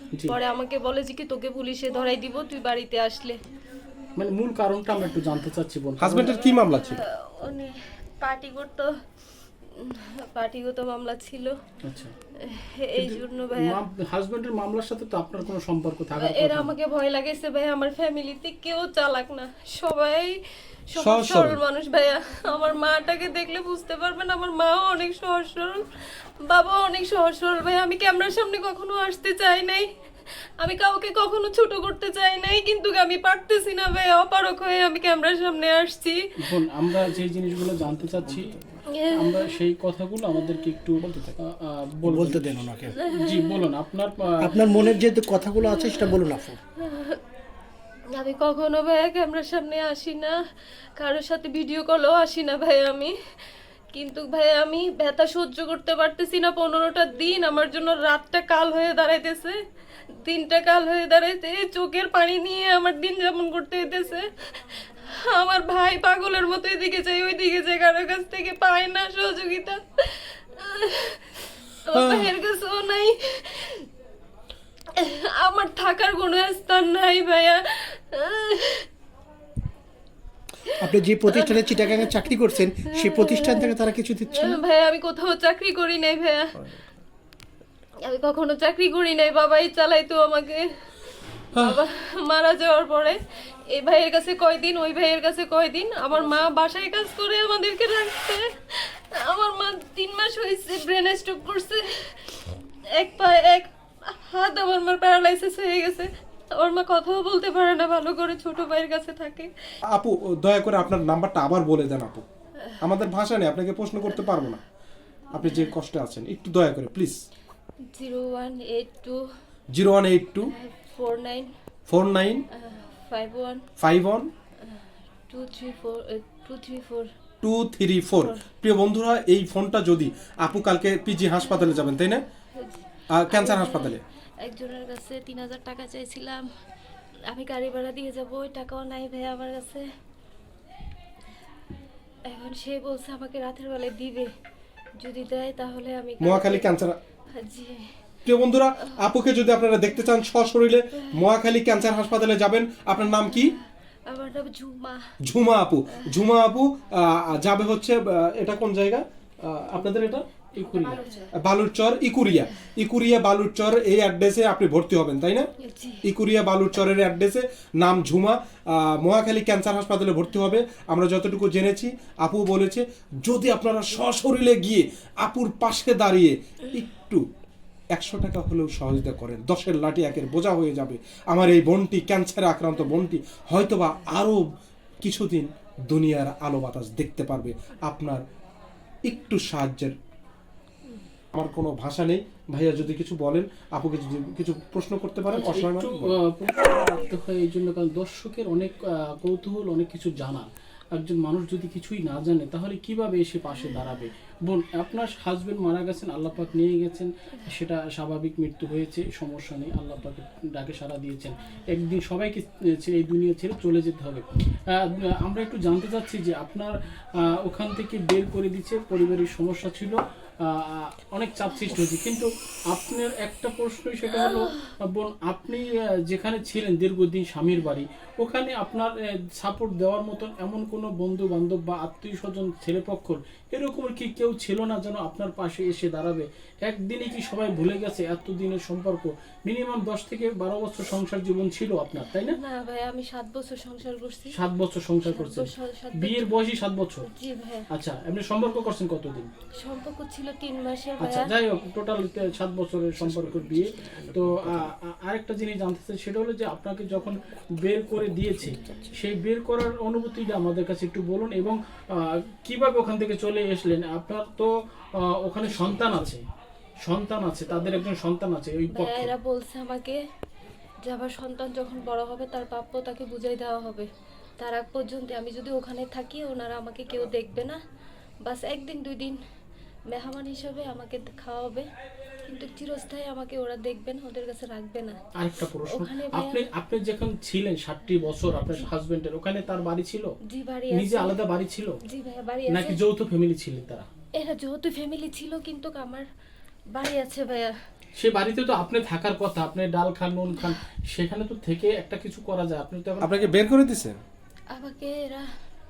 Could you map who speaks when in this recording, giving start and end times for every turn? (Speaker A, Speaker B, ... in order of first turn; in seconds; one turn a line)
Speaker A: 0.3-3.4
Speaker B: 4.2-6.4
Speaker C: 6.0-7.0
Speaker A: 6.2-8.9
Speaker A: 9.7-11.6
Speaker B: 11.8-12.1
Speaker A: 12.4-13.8
Speaker B: 13.0-16.7
Speaker A: 16.2-20.4
Speaker A: 20.9-25.9
Speaker C: 20.9-21.6
Speaker A: 26.4-29.9
Speaker A: 30.6-36.2
Speaker B: 36.4-38.5
Speaker A: 38.9-39.6
Speaker B: 39.1-44.7
Speaker D: 42.0-43.0
Speaker A: 43.0-43.6
Speaker D: 44.4-46.6
Speaker A: 45.5-46.3
Speaker A: 46.8-47.2
Speaker A: 48.1-50.4
Speaker A: 51.0-53.1
Speaker A: 53.9-59.6
Speaker A: 60.1-73.9
Speaker A: 74.9-78.9
Speaker D: 80.8-84.6
Speaker A: 81.3-86.7
Speaker A: 88.0-90.7
Speaker A: 91.5-109.5
Speaker C: 109.9-112.2
Speaker C: 112.8-114.6
Speaker C: 115.3-117.2
Speaker A: 115.4-115.7
Speaker A: 117.9-119.2
Speaker C: 119.7-120.5
Speaker A: 120.5-121.5
Speaker C: 121.9-122.4
Speaker A: 122.5-123.6
Speaker C: 123.8-124.3
Speaker A: 124.6-127.1
Speaker C: 127.4-132.2
Speaker A: 128.2-128.5
Speaker A: 131.4-131.9
Speaker A: 132.6-136.5
Speaker C: 133.1-134.0
Speaker A: 137.3-139.9
Speaker A: 142.2-144.3
Speaker A: 145.0-146.7
Speaker C: 146.2-147.0
Speaker A: 147.3-147.9
Speaker C: 148.2-153.6
Speaker A: 151.0-151.2
Speaker A: 153.1-155.0
Speaker C: 155.2-160.2
Speaker A: 155.9-156.2
Speaker B: 160.6-161.0
Speaker A: 160.6-161.3
Speaker C: 161.4-165.5
Speaker A: 165.6-166.0
Speaker C: 166.1-177.2
Speaker C: 177.9-184.4
Speaker C: 185.0-188.2
Speaker C: 189.1-189.9
Speaker C: 191.3-196.1
Speaker B: 195.3-242.4
Speaker A: 224.3-224.7
Speaker A: 242.3-244.4
Speaker B: 244.3-247.1
Speaker A: 245.1-246.3
Speaker A: 247.1-247.7
Speaker B: 247.7-249.3
Speaker A: 249.6-251.3
Speaker B: 251.0-266.2
Speaker C: 253.9-254.7
Speaker B: 266.8-269.1
Speaker A: 268.7-270.0
Speaker A: 270.8-273.9
Speaker A: 274.4-277.6
Speaker A: 278.2-279.2
Speaker A: 279.9-281.7
Speaker A: 282.2-285.0
Speaker B: 285.2-290.1
Speaker A: 285.7-286.4
Speaker A: 290.2-291.2
Speaker B: 290.7-291.8
Speaker A: 291.8-292.8
Speaker B: 292.5-293.9
Speaker A: 294.1-296.1
Speaker A: 296.7-297.5
Speaker B: 298.0-303.1
Speaker C: 303.0-304.0
Speaker A: 304.5-305.3